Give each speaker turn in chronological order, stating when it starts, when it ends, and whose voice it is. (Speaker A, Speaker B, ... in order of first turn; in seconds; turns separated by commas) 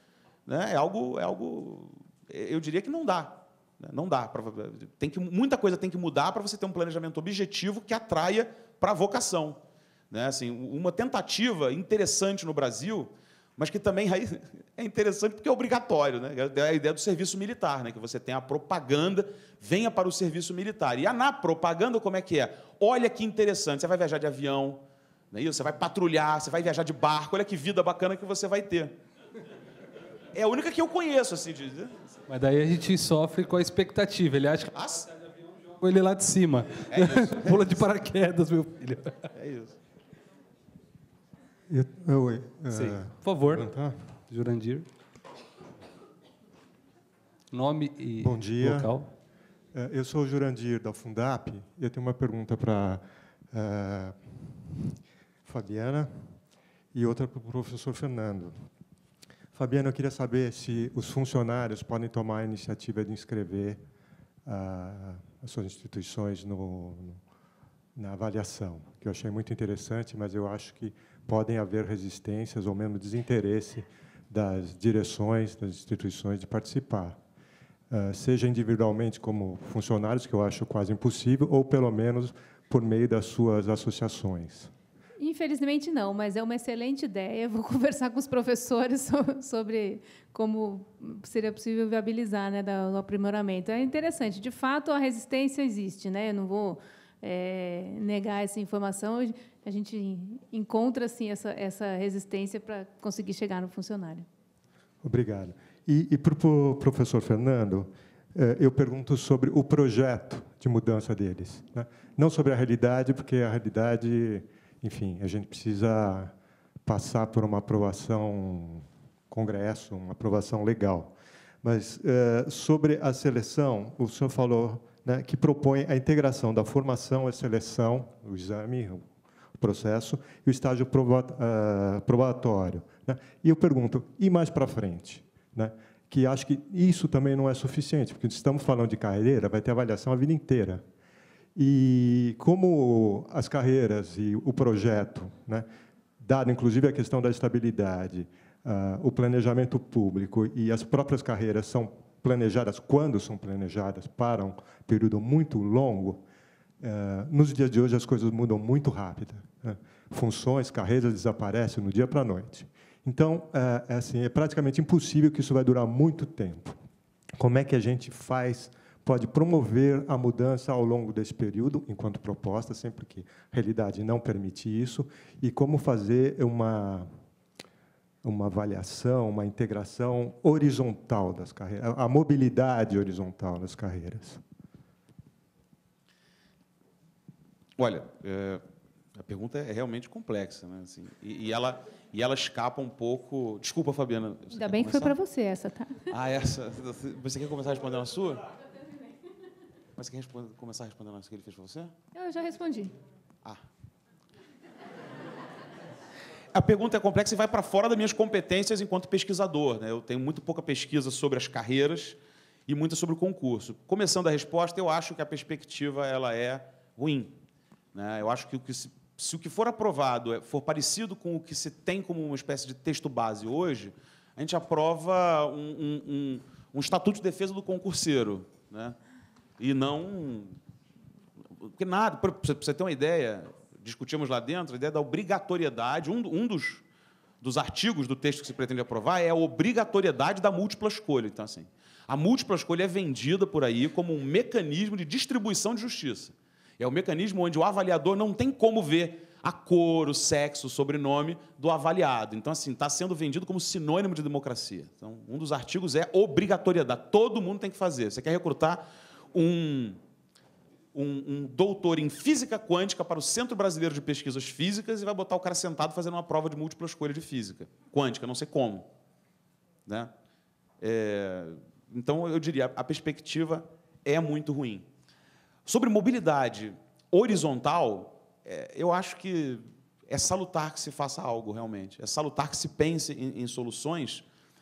Speaker A: 0.5-28.9, Speaker A: 30.3-31.9, Speaker B: 32.3-39.3, Speaker A: 34.7-35.1, Speaker A: 36.9-37.8, Speaker A: 39.4-39.8, Speaker C: 41.7-44.0, Speaker B: 42.7-44.9, Speaker B: 47.5-49.1, Speaker C: 48.2-48.9, Speaker C: 49.7-54.6, Speaker C: 55.5-56.4, Speaker C: 56.9-58.7, Speaker C: 59.5-63.8, Speaker C: 64.5-67.2, Speaker C: 68.0-77.2, Speaker C: 77.9-84.7, Speaker D: 85.2-104.3, Speaker C: 105.0-116.3, Speaker C: 116.8-140.8, Speaker C: 141.6-145.7, Speaker C: 146.2-156.2, Speaker C: 156.8-166.8, Speaker C: 167.4-177.1, Speaker C: 178.2-184.4, Speaker A: 187.8-188.6, Speaker A: 189.2-195.2, Speaker D: 194.5-196.1, Speaker A: 196.1-198.5, Speaker A: 200.0-201.9, Speaker D: 202.1-202.9, Speaker A: 206.5-217.3, Speaker A: 217.9-229.0, Speaker A: 229.6-230.6, Speaker A: 231.6-236.8, Speaker A: 237.4-260.0, Speaker A: 260.9-268.9, Speaker A: 269.9-270.1, Speaker A: 270.8-274.9, Speaker A: 275.7-284.2